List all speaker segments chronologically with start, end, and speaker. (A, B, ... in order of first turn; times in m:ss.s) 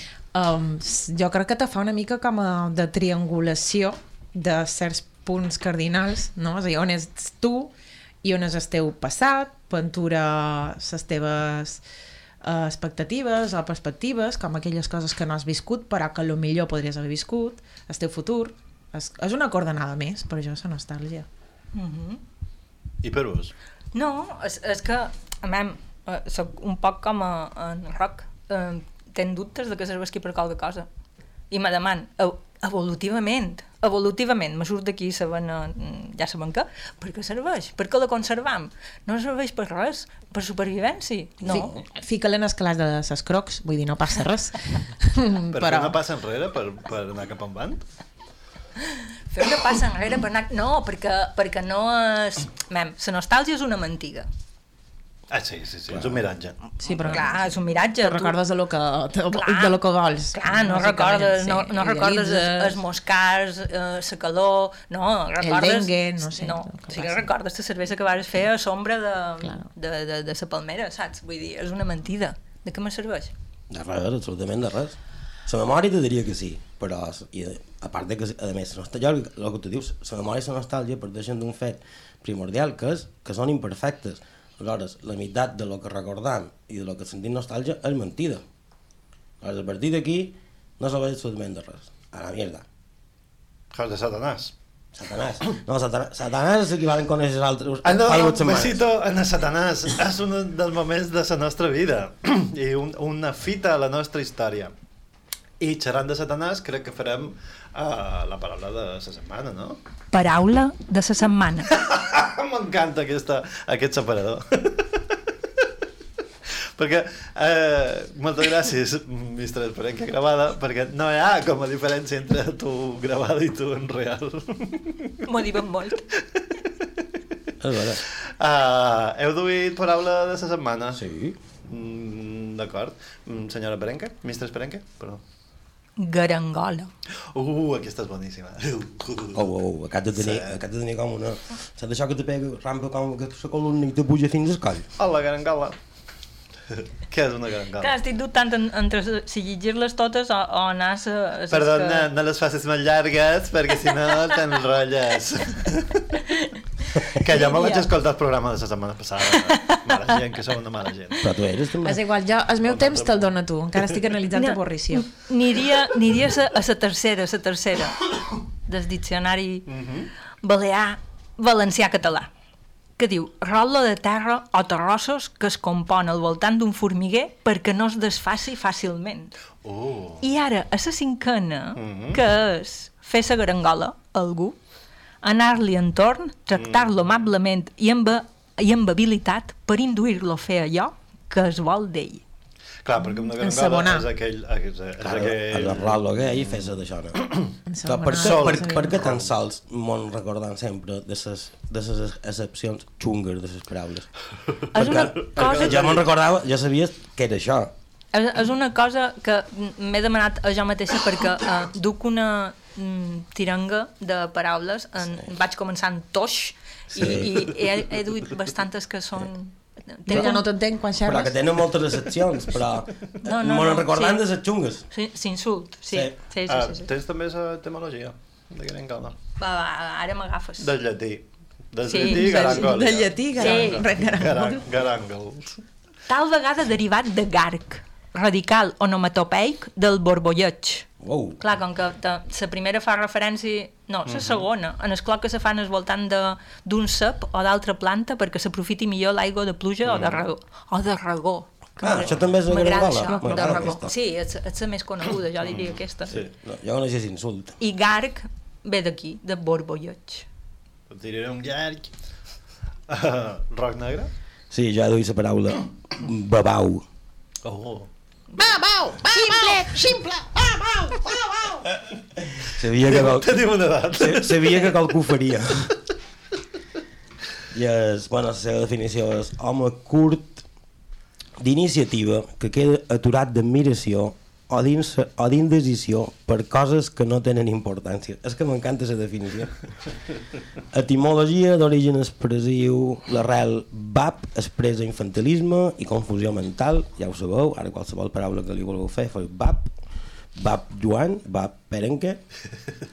0:00.3-0:07.7 A
0:08.2-0:11.8 A
0:12.4-0:21.3 A
0:21.7-0:22.2 B
0:23.0-0:23.5 C
0:23.9-0:30.9 B
0:31.5-0:41.7 B
0:41.4-0:46.0 A
0:45.5-0:47.8 C
0:49.3-0:54.3 B
0:55.3-0:56.6 C
0:56.8-0:57.5 A
0:56.8-0:58.4 B
0:58.0-1:02.8 A
0:59.3-0:59.8 B
1:00.3-1:13.3 B
1:05.4-1:07.2 A
1:13.7-1:28.4 D
1:29.4-1:32.6 D
1:33.7-1:34.5 C
1:34.9-1:38.8 D
1:37.8-1:44.7 C
1:45.6-1:49.8 C
1:50.1-1:51.7 B
1:51.7-1:54.9 C
1:56.8-2:05.2 C
2:05.3-2:06.0 B
2:07.6-2:08.0 D
2:08.4-2:11.0 C
2:10.9-2:11.4 D
2:11.7-2:15.2 C
2:16.0-2:16.9 B
2:17.3-2:19.4 C
2:19.3-2:24.9 D
2:20.2-2:20.6 C
2:25.0-2:25.8 C
2:27.1-2:27.9 C
2:27.8-2:32.1 B
2:31.5-2:36.0 C
2:37.0-2:41.2 C
2:37.3-2:37.9 B
2:41.2-2:42.0 D
2:41.8-2:45.1 A
2:42.6-2:43.3 C
2:44.3-2:48.1 B
2:48.7-2:49.7 B
2:49.7-2:50.1 C
2:50.4-2:52.3 B
2:53.0-2:59.3 B
2:59.6-3:00.2 C
3:00.2-3:04.6 B
3:01.8-3:02.2 C
3:05.2-3:12.2 B
3:06.6-3:07.0 C
3:12.8-3:16.6 C
3:13.4-3:14.0 A
3:15.0-3:17.2 D
3:17.7-3:18.9 A
3:17.9-3:24.1 D
3:18.2-3:19.3 C
3:24.7-3:26.0 B
3:24.7-3:27.7 D
3:24.9-3:26.0 C
3:28.1-3:40.4 B
3:36.9-3:37.5 D
3:40.1-3:41.4 A
3:41.0-3:44.9 D
3:43.2-3:44.2 B
3:44.9-3:46.9 B
3:46.5-3:49.2 C
3:49.4-3:50.7 B
3:50.6-3:55.6 C
3:51.8-3:52.8 B
3:52.0-3:54.6 A
3:53.4-3:53.8 B
3:56.1-4:00.9 B
4:01.0-4:01.4 D
4:01.4-4:16.2 B
4:04.1-4:04.4 C
4:09.8-4:10.2 C
4:11.8-4:13.9 D
4:12.0-4:12.3 C
4:13.1-4:13.8 A
4:15.4-4:16.2 C
4:16.1-4:17.6 D
4:17.6-4:20.2 B
4:20.9-4:21.9 C
4:22.9-4:24.1 C
4:24.5-4:26.8 D
4:27.4-4:27.9 C
4:28.4-4:31.6 E
4:32.4-4:35.7 D
4:32.8-4:34.7 C
4:37.5-4:40.4 D
4:41.4-4:49.6 D
4:50.7-4:59.7 D
5:00.4-5:02.2 D